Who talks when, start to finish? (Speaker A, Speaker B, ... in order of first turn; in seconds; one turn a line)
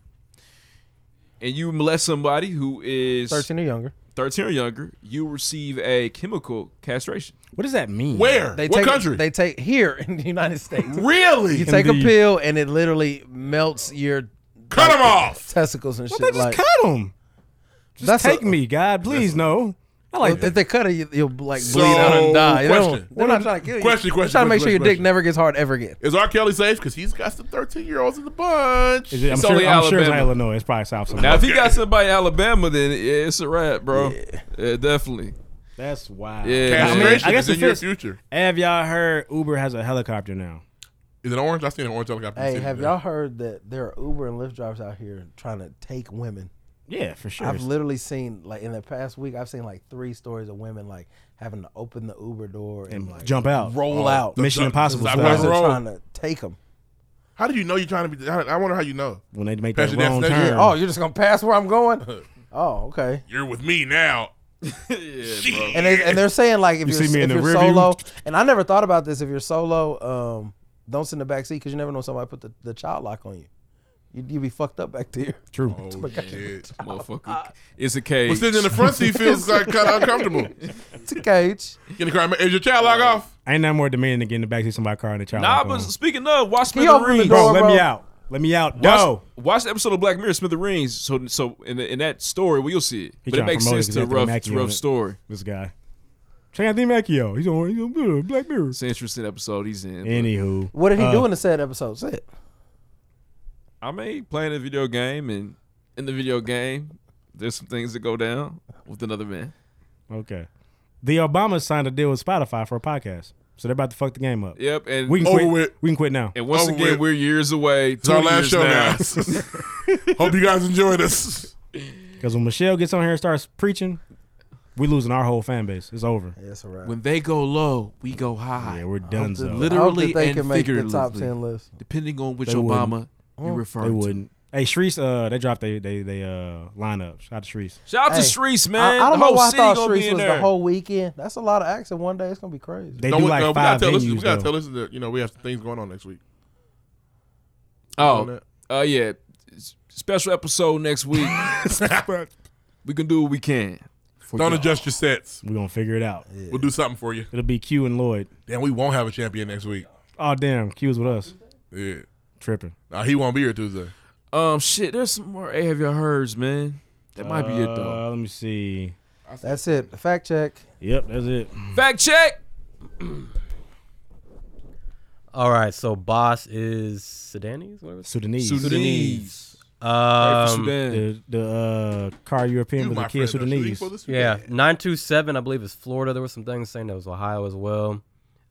Speaker A: 1.4-3.5
Speaker B: 3.3-3.9
Speaker A: 4.1-7.3
Speaker C: 7.5-8.5
Speaker D: 8.1-9.2
Speaker B: 8.5-16.6
Speaker D: 10.8-11.7
Speaker C: 11.6-12.2
Speaker D: 14.7-15.5
Speaker C: 16.1-17.1
Speaker C: 18.0-20.5
Speaker B: 18.0-18.5
Speaker D: 19.1-19.4
Speaker B: 20.2-26.0
Speaker D: 21.6-25.1
Speaker C: 21.7-22.2
Speaker C: 23.1-23.5
Speaker D: 26.0-29.3
Speaker C: 29.1-31.5
Speaker A: 29.3-30.3
Speaker D: 31.2-31.8
Speaker A: 31.2-35.3
Speaker B: 33.9-34.4
Speaker C: 35.8-40.6
Speaker A: 36.4-37.3
Speaker D: 36.6-38.2
Speaker D: 41.2-43.0
Speaker B: 42.4-46.5
Speaker C: 46.9-47.7
Speaker B: 47.4-56.6
Speaker C: 52.9-55.6
Speaker D: 53.7-55.8
Speaker D: 57.4-59.2
Speaker C: 59.3-60.7
Speaker D: 59.7-60.5
Speaker B: 60.3-63.2
Speaker D: 63.3-64.3
Speaker A: 64.6-65.8
Speaker D: 65.2-66.2
Speaker B: 65.7-73.5
Speaker C: 66.8-68.0
Speaker B: 74.1-76.8
Speaker C: 75.5-75.9
Speaker D: 75.7-76.7
Speaker A: 76.1-79.0
Speaker D: 78.3-80.5
Speaker B: 79.1-80.2
Speaker B: 80.9-81.8
Speaker D: 82.0-83.3
Speaker C: 83.4-85.9
Speaker A: 85.3-87.6
Speaker B: 86.7-87.9
Speaker C: 87.2-89.2
Speaker A: 88.8-95.2
Speaker C: 93.2-95.7
Speaker C: 96.5-98.8
Speaker A: 98.7-100.3
Speaker C: 100.0-101.3
Speaker B: 100.7-102.3
Speaker A: 103.8-109.5
Speaker C: 110.1-110.5
Speaker C: 111.0-116.3
Speaker A: 114.5-115.4
Speaker D: 115.2-115.7
Speaker A: 116.3-119.5
Speaker D: 116.5-117.0
Speaker D: 118.0-121.5
Speaker C: 122.2-124.0
Speaker C: 124.8-126.3
Speaker B: 126.4-126.9
Speaker A: 126.8-128.8
Speaker C: 128.6-129.7
Speaker B: 129.0-131.7
Speaker A: 129.4-134.2
Speaker C: 132.4-132.9
Speaker C: 133.8-137.8
Speaker A: 137.9-140.5
Speaker B: 138.1-143.1
Speaker C: 143.0-144.5
Speaker D: 143.1-146.2
Speaker A: 148.0-151.5
Speaker D: 148.0-148.4
Speaker D: 151.3-152.1
Speaker C: 151.4-152.3
Speaker A: 152.8-154.9
Speaker D: 154.3-155.4
Speaker C: 155.4-156.2
Speaker B: 156.3-156.7
Speaker D: 156.5-157.3
Speaker C: 157.3-158.3
Speaker D: 158.5-159.8
Speaker C: 160.2-161.3
Speaker D: 161.7-162.1
Speaker C: 162.4-162.7
Speaker D: 162.9-163.9
Speaker A: 164.3-168.0
Speaker C: 167.2-168.9
Speaker D: 169.3-169.9
Speaker B: 169.4-170.6
Speaker C: 170.8-171.8
Speaker A: 171.7-172.4
Speaker E: 175.3-180.8
Speaker C: 178.0-178.8
Speaker A: 178.4-179.5
Speaker A: 180.1-181.0
Speaker C: 180.8-183.9
Speaker D: 182.8-184.5
Speaker E: 184.1-188.0